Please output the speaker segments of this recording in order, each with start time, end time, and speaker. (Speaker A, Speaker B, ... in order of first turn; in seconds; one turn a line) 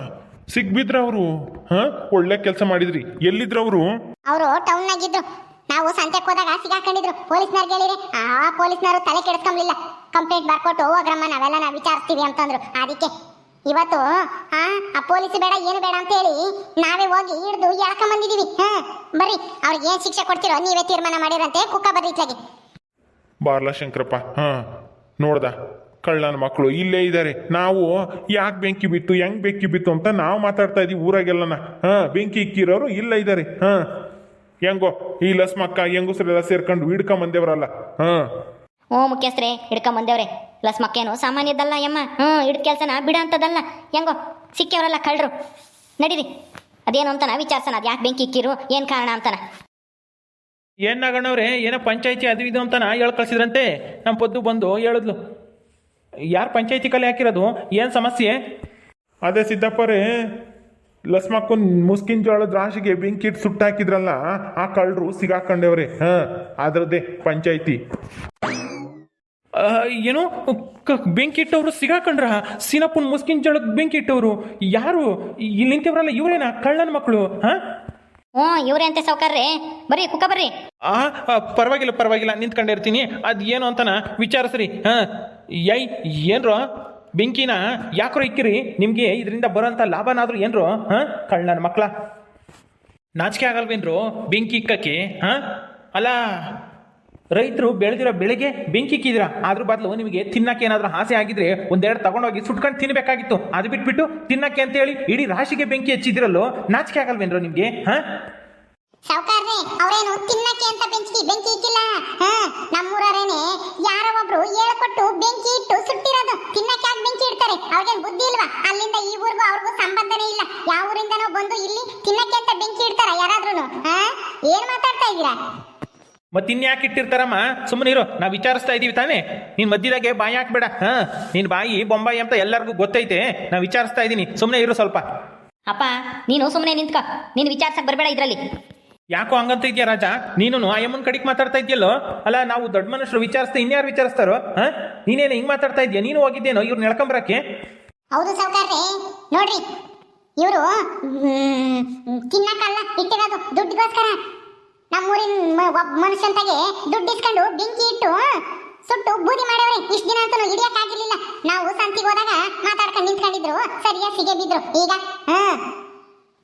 Speaker A: 0.5-4.0
Speaker B: 4.3-13.1
Speaker B: 13.7-22.4
Speaker A: 23.4-24.6
Speaker A: 25.2-33.8
Speaker A: 34.6-38.2
Speaker C: 38.9-45.3
Speaker C: 46.0-46.2
Speaker C: 46.9-49.4
Speaker D: 50.9-55.1
Speaker D: 56.3-58.4
Speaker A: 59.2-60.0
Speaker A: 61.1-67.8
Speaker D: 69.6-77.6
Speaker C: 78.4-80.5
Speaker D: 80.9-85.0
Speaker D: 85.6-86.6
Speaker D: 87.2-91.9
Speaker D: 93.2-95.4
Speaker D: 97.3-108.0
Speaker B: 109.1-125.3
Speaker D: 126.3-135.0
Speaker C: 135.7-138.4
Speaker D: 139.1-147.4
Speaker B: 148.1-149.6
Speaker B: 150.4-154.2
Speaker B: 154.9-158.2
Speaker B: 158.9-165.6